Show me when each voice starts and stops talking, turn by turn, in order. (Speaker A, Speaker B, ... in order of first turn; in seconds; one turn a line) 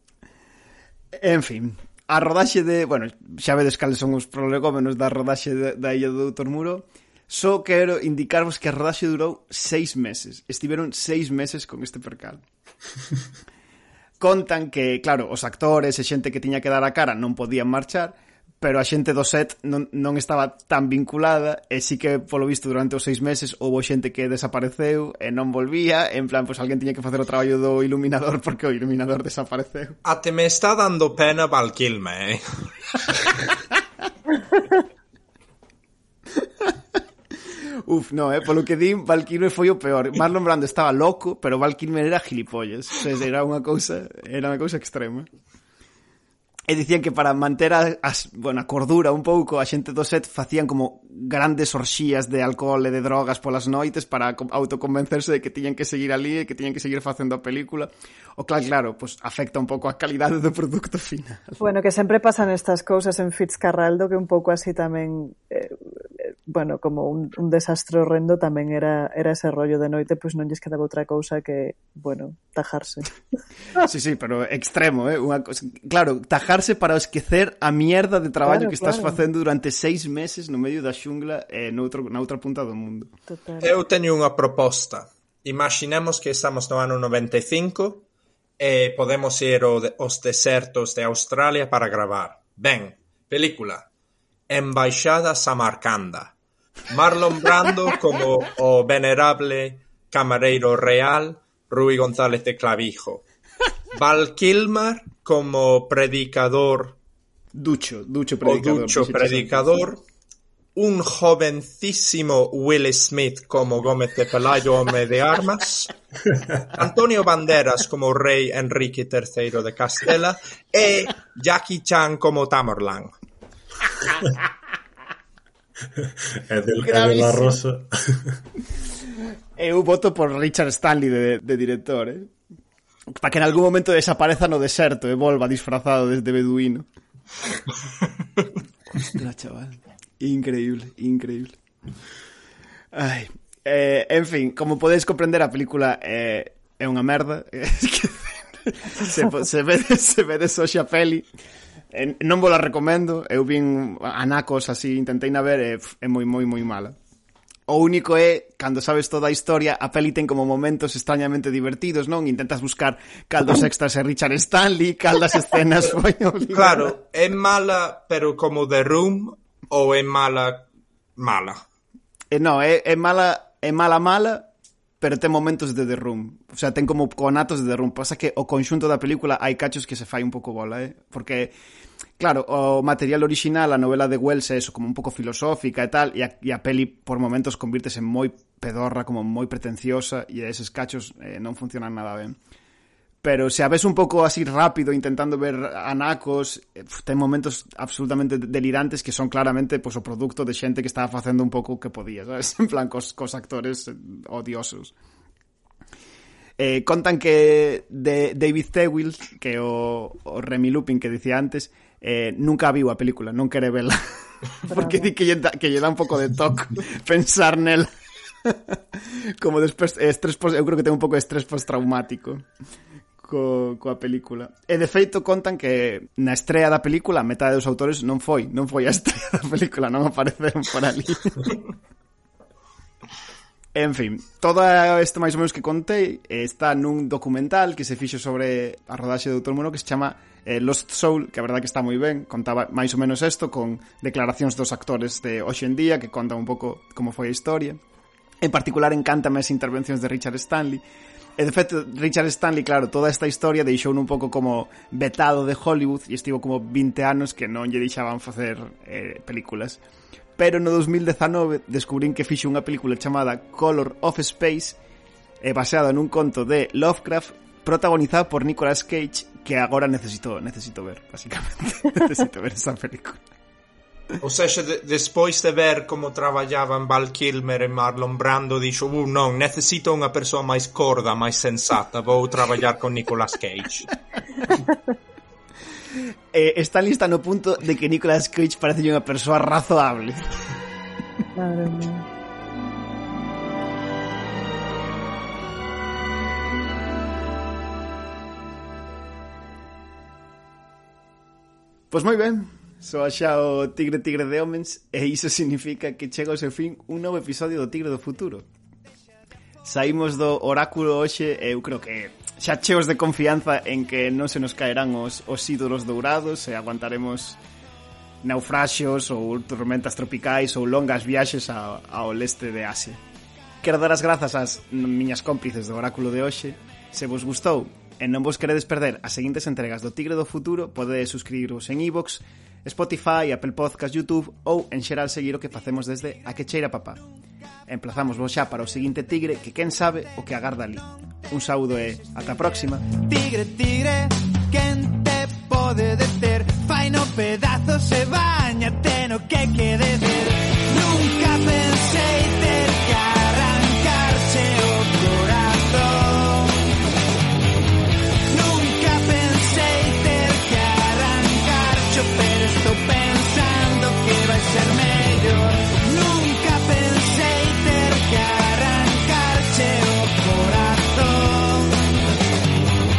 Speaker A: 1.1-12.4
Speaker A: 14.2-29.9
Speaker B: 30.0-32.7
Speaker A: 36.4-36.7
Speaker A: 37.9-45.3
Speaker A: 46.7-61.6
Speaker C: 61.6-73.1
Speaker A: 73.8-83.1
Speaker C: 78.4-79.2
Speaker C: 83.3-83.7
Speaker B: 83.6-88.0
Speaker B: 88.6-93.9
Speaker B: 94.5-96.3
Speaker B: 96.9-103.2
Speaker B: 103.9-107.0
Speaker A: 107.5-109.8
Speaker B: 108.4-110.0
Speaker B: 110.8-115.9
Speaker B: 116.7-123.1
Speaker D: 126.0-128.4
Speaker A: 126.8-127.6
Speaker A: 129.6-132.3
Speaker A: 133.1-136.9
Speaker A: 138.9-141.6
Speaker A: 142.9-151.3
Speaker A: 151.9-157.0
Speaker A: 157.7-167.0
Speaker B: 166.5-170.7
Speaker B: 171.2-171.6
Speaker A: 172.3-174.5
Speaker A: 175.0-181.5
Speaker A: 182.2-192.4
Speaker A: 193.2-204.9
Speaker A: 206.6-214.2
Speaker C: 214.7-215.1
Speaker A: 214.7-217.9
Speaker A: 218.4-222.4
Speaker A: 223.2-231.6
Speaker A: 233.7-247.8
Speaker A: 248.4-250.8
Speaker A: 251.4-259.8
Speaker A: 260.4-264.8
Speaker A: 265.4-273.2
Speaker B: 274.2-283.9
Speaker A: 286.3-290.2
Speaker C: 291.4-292.1
Speaker A: 301.9-308.5
Speaker A: 309.6-317.4
Speaker A: 318.2-323.0
Speaker A: 323.6-337.0
Speaker A: 337.7-342.9
Speaker E: 342.9-356.8
Speaker E: 358.3-371.8